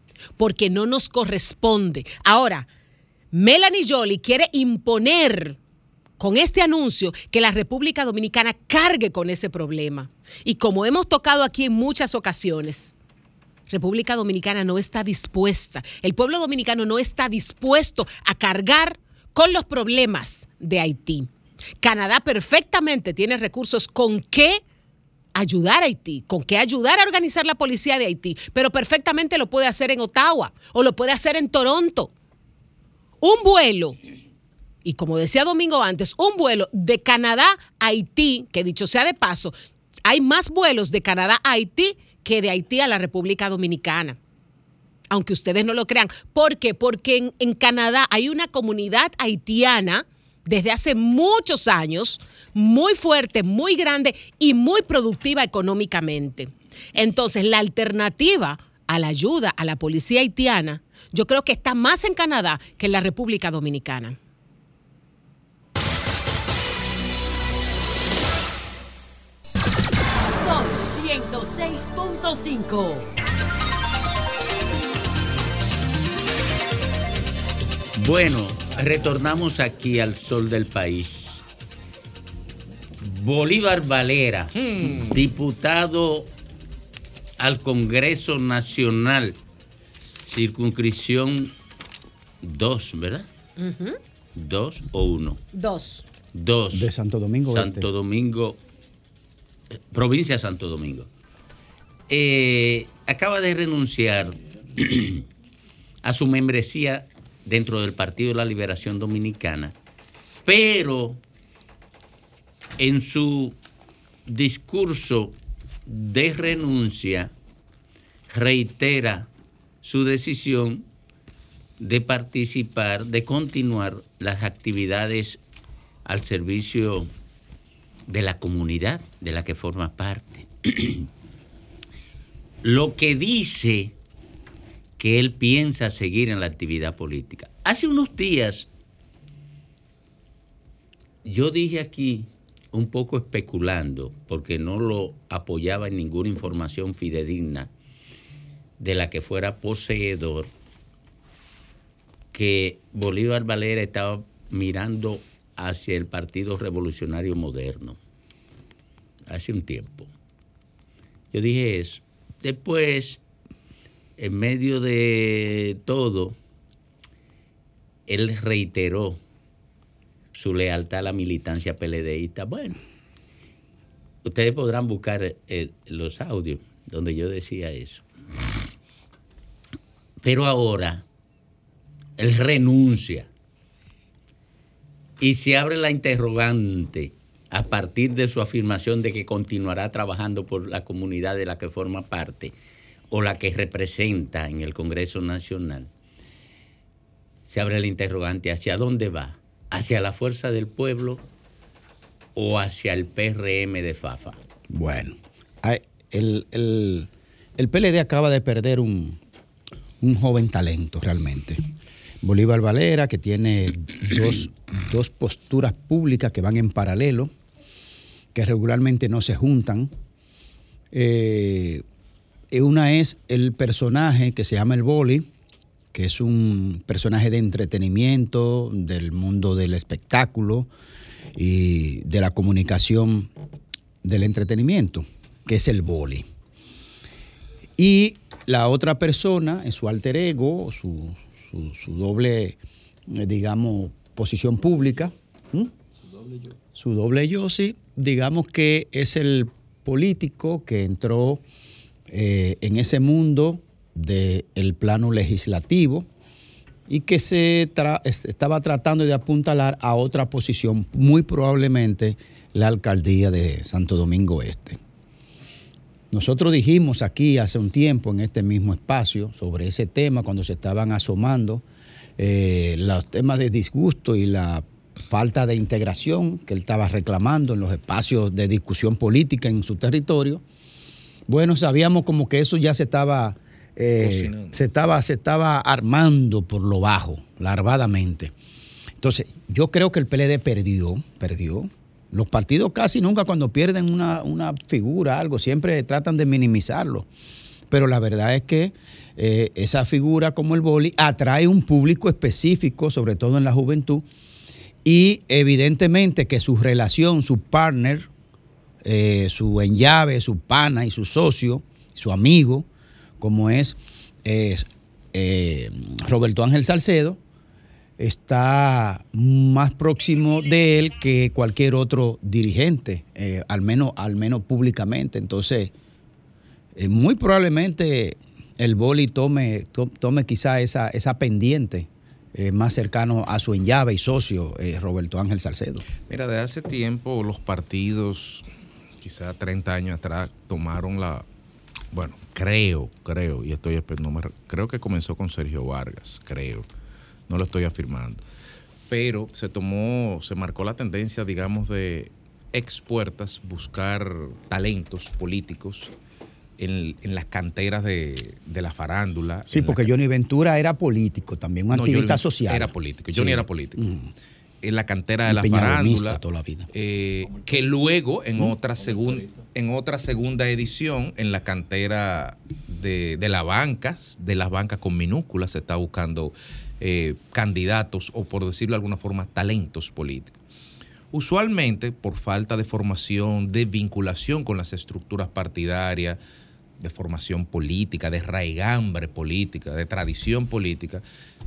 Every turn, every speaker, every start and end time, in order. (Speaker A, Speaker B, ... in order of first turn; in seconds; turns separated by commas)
Speaker A: 0.4-2.7, Speaker A: 3.3-5.6, Speaker A: 6.2-12.9, Speaker A: 13.7-21.3, Speaker A: 21.8-24.6, Speaker A: 25.3-32.1, Speaker A: 33.2-34.0, Speaker A: 34.8-39.5, Speaker A: 40.0-44.2, Speaker A: 45.1-64.2, Speaker B: 70.2-73.1, Speaker C: 78.0-81.4, Speaker C: 83.0-86.3, Speaker D: 84.5-85.2, Speaker C: 87.4-89.4, Speaker C: 90.2-91.5, Speaker C: 92.4-93.3, Speaker A: 93.6-94.0, Speaker C: 94.3-95.4, Speaker A: 95.5-96.1, Speaker C: 96.3-96.9, Speaker E: 96.7-97.8, Speaker C: 97.5-98.6, Speaker C: 99.8-101.1, Speaker C: 102.1-105.2, Speaker C: 106.0-109.7, Speaker C: 110.4-111.2, Speaker C: 112.8-113.6, Speaker C: 114.3-115.3, Speaker C: 115.9-117.3, Speaker C: 118.3-119.3, Speaker C: 119.8-120.9, Speaker C: 121.8-125.4, Speaker C: 126.0-127.1, Speaker C: 128.1-131.1, Speaker C: 132.6-133.9, Speaker C: 135.0-138.7, Speaker C: 141.2-147.7, Speaker C: 148.8-150.5, Speaker C: 152.3-158.0, Speaker C: 159.3-160.1, Speaker C: 161.3-163.2, Speaker C: 164.2-166.4, Speaker C: 168.1-169.2, Speaker C: 170.3-172.8, Speaker C: 174.2-178.0, Speaker C: 180.2-181.0, Speaker C: 182.2-183.3, Speaker C: 185.2-192.6, Speaker C: 193.1-195.9, Speaker C: 197.5-201.2, Speaker C: 202.3-204.4, Speaker E: 204.7-209.2, Speaker E: 210.0-211.6, Speaker E: 212.2-217.3, Speaker E: 218.3-219.9, Speaker E: 220.9-221.8, Speaker E: 222.5-225.3, Speaker E: 225.9-230.7, Speaker E: 231.3-233.3, Speaker E: 234.0-236.2, Speaker E: 237.8-245.7, Speaker E: 246.7-251.4, Speaker E: 252.1-256.1, Speaker E: 256.9-264.8, Speaker E: 266.1-271.6, Speaker E: 272.2-280.4, Speaker E: 281.3-288.3, Speaker D: 284.0-284.6, Speaker E: 289.0-297.1, Speaker E: 297.7-304.1, Speaker E: 304.8-308.1, Speaker E: 308.8-312.6, Speaker E: 313.2-317.2, Speaker E: 318.0-325.7, Speaker E: 326.8-335.8, Speaker D: 336.1-338.5, Speaker D: 339.0-341.2, Speaker D: 341.9-346.7, Speaker D: 347.3-348.2, Speaker D: 348.9-355.9, Speaker D: 356.6-359.9, Speaker E: 359.5-364.1, Speaker D: 361.7-363.8, Speaker D: 364.6-366.2, Speaker E: 365.2-366.7, Speaker D: 366.7-380.4, Speaker D: 381.1-386.2, Speaker D: 386.8-391.0